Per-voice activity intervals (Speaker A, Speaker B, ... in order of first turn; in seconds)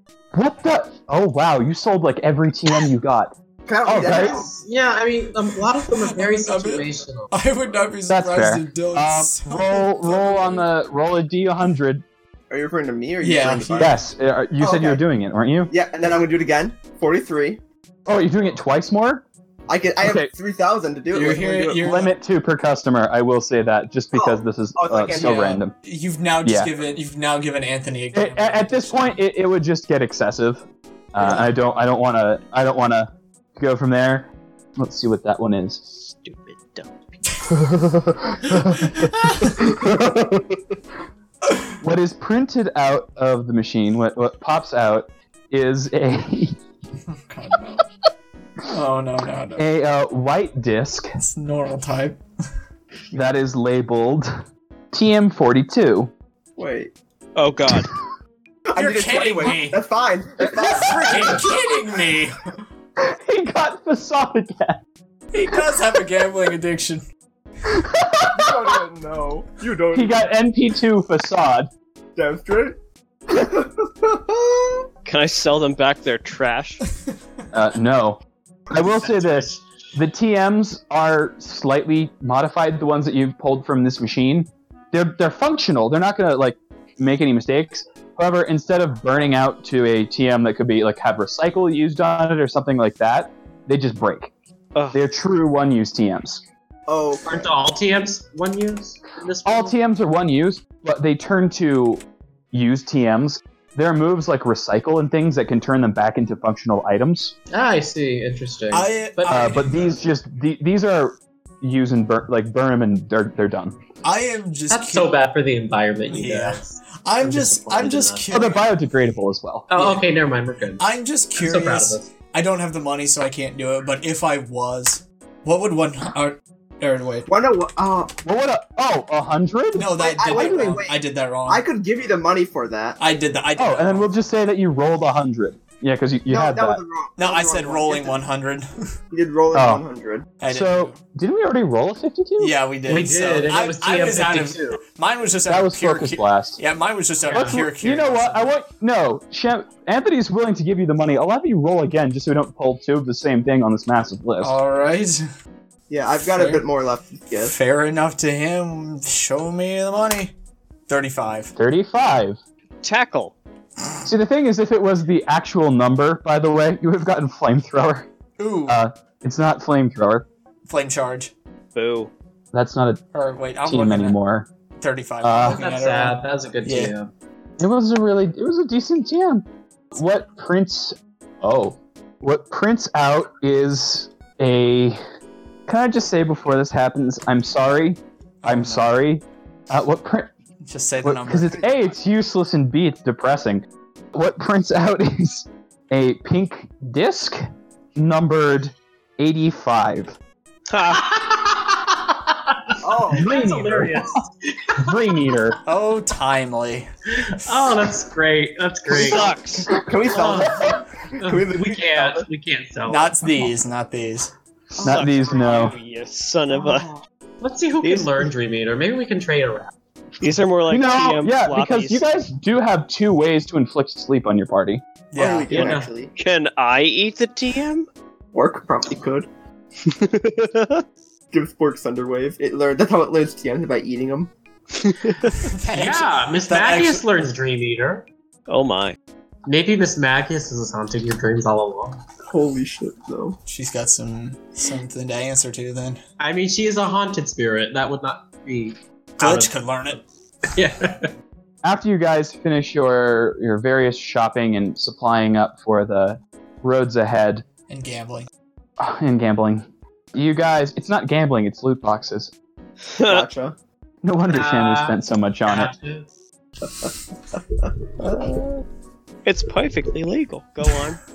Speaker A: 0.3-3.3, 3.9-4.4, 8.1-12.0, 13.8-15.7, 18.1-19.2, 20.0-20.3, 21.8-25.7, 26.4-26.7, 28.1-35.8, 37.7-40.5, 41.8-46.6, 49.6-51.1, 53.1-54.3, 54.9-56.1, 63.0-64.8, 67.7-68.5, 69.9-71.7, 77.5-78.2, 78.7-94.3, 94.9-96.4, 99.4-102.0, 102.5-107.3, 109.3-113.8, 118.3-119.9, 128.2-130.8, 133.6-136.8, 139.5-139.8, 140.5-142.6, 145.5-146.6, 147.3-154.6, 161.6-162.4, 164.1-168.1, 168.7-170.3, 172.5-173.0, 173.6-174.5, 175.2-175.6, 177.6-185.0, 185.7-190.3, 191.0-200.1, 203.1-204.1, 204.8-205.6, 214.7-215.8, 220.7-224.8, 251.6-257.4, 258.8-262.3, 264.0-265.7
Speaker B: 3.7-4.5, 12.5-14.0, 14.6-15.0, 15.7-17.6, 19.7-21.9, 24.1-25.6, 56.6-56.9, 58.7-61.5, 68.3-70.3, 72.2-72.8, 73.3-74.8, 96.9-97.5, 127.3-128.1, 129.9-133.0, 136.3-138.2, 139.1-140.3, 155.9-157.5, 202.8-203.3, 208.9-212.2, 214.8-215.4, 216.5-217.0, 225.2-226.1, 228.3-229.3, 231.3-234.3, 242.3-243.4, 263.0-263.6, 266.6-268.4
Speaker C: 4.0-7.3, 97.2-99.7, 107.5-109.7, 114.7-118.3, 119.7-122.1, 142.9-144.8, 147.3-147.6, 175.5-177.1, 200.9-205.3, 207.2-209.3, 210.1-210.7, 211.2-213.2, 217.4-219.7, 225.5-225.9, 235.7-238.1, 239.4-242.0, 246.2-249.5, 250.6-251.1, 264.3-266.1
Speaker D: 5.8-10.7, 13.2-14.0, 21.1-22.1, 25.1-29.2, 38.6-39.6, 47.1-47.9, 48.7-49.6, 51.2-52.2, 58.7-59.8, 60.4-62.4, 65.3-67.0, 108.7-110.0, 114.0-115.1, 116.1-118.7, 120.8-127.3, 129.7-131.6, 133.0-134.1, 137.2-138.9, 140.4-141.0, 142.4-148.5, 154.4-155.3, 156.3-156.6, 157.4-160.3, 160.9-161.5, 168.4-168.8, 170.7-171.3, 173.1-174.2, 174.8-176.9, 188.4-188.9, 190.6-191.6, 205.7-206.9, 212.9-214.3, 225.1-225.6, 235.4-237.1, 243.4-246.0, 249.2-250.0, 257.7-258.3
Speaker E: 35.9-36.9, 57.4-57.9, 75.1-76.8, 162.8-163.3, 171.7-172.1, 200.7-201.1, 208.9-209.7, 214.8-216.9, 217.8-218.3, 220.2-222.0, 226.1-227.9, 229.8-230.8, 234.8-235.4, 238.5-238.9, 262.9-263.3, 269.2-271.0